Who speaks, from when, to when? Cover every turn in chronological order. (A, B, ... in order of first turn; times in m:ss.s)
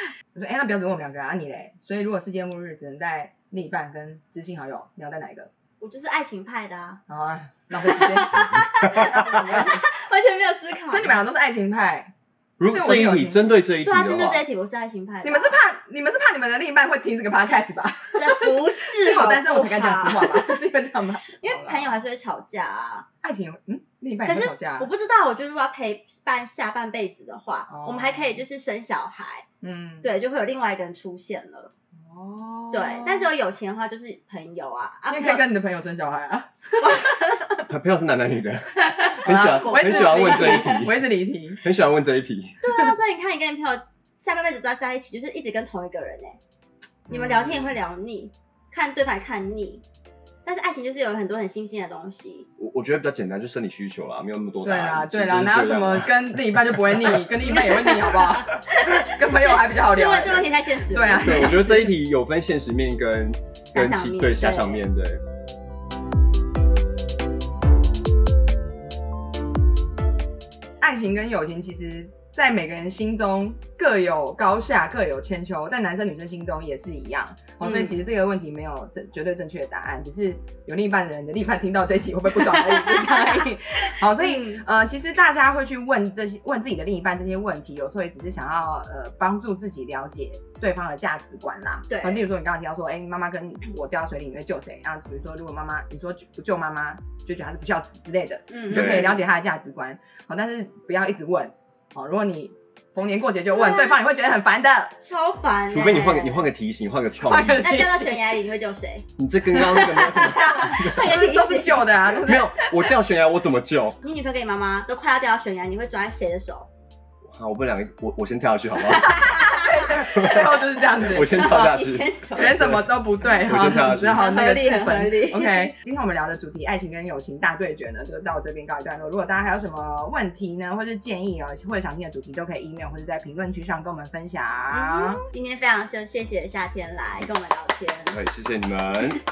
0:00.3-0:05.5 A
0:05.8-0:07.0 B
0:07.1-0:09.8 A
0:07.7-0:11.2 B
0:10.9-0:12.1 A
0:12.6-0:14.4 C
0:12.7-0:13.6 A
0:13.8-0:15.6 B
0:15.2-0:22.0 A
0:18.2-0:20.6 B
0:21.4-0:23.1 B
0:23.2-0:24.9 A
0:24.2-0:29.5 B
0:27.7-0:28.4 A
0:29.6-0:30.1 A
0:30.0-0:31.7 B
0:32.0-0:33.3 A
0:32.7-0:35.5 B
0:35.1-0:37.7 A
0:36.8-0:37.4 B
0:37.7-0:42.6 C
0:38.8-0:40.9 B
0:39.2-0:41.6 A
0:42.6-0:46.4 B
0:47.1-0:47.7 A
0:47.1-0:49.8 B
0:50.4-0:52.5 B
0:52.6-0:57.2 C
0:54.6-1:01.9 A
0:57.7-1:01.6 B
1:01.2-1:05.2 C
1:03.7-1:04.8 B
1:10.8-1:44.9 A
1:17.6-1:18.0 B
1:22.5-1:23.4 B
1:24.2-1:24.6 B
1:31.9-1:32.2 B
1:38.5-1:39.1 B
1:38.7-1:39.2 C
1:43.5-1:44.0 B
1:45.0-1:46.5 B
1:45.7-1:47.6 C
1:47.2-1:48.3 A
1:47.5-1:52.7 B
1:49.2-1:51.2 C
1:50.6-1:52.5 A
1:52.2-1:54.0 C
1:54.0-1:56.7 B
1:57.2-2:04.2 C
1:58.9-2:02.6 B
1:59.4-2:01.7 A
2:02.3-2:15.2 A
2:04.1-2:05.7 B
2:14.7-2:18.2 B
2:18.1-2:19.2 C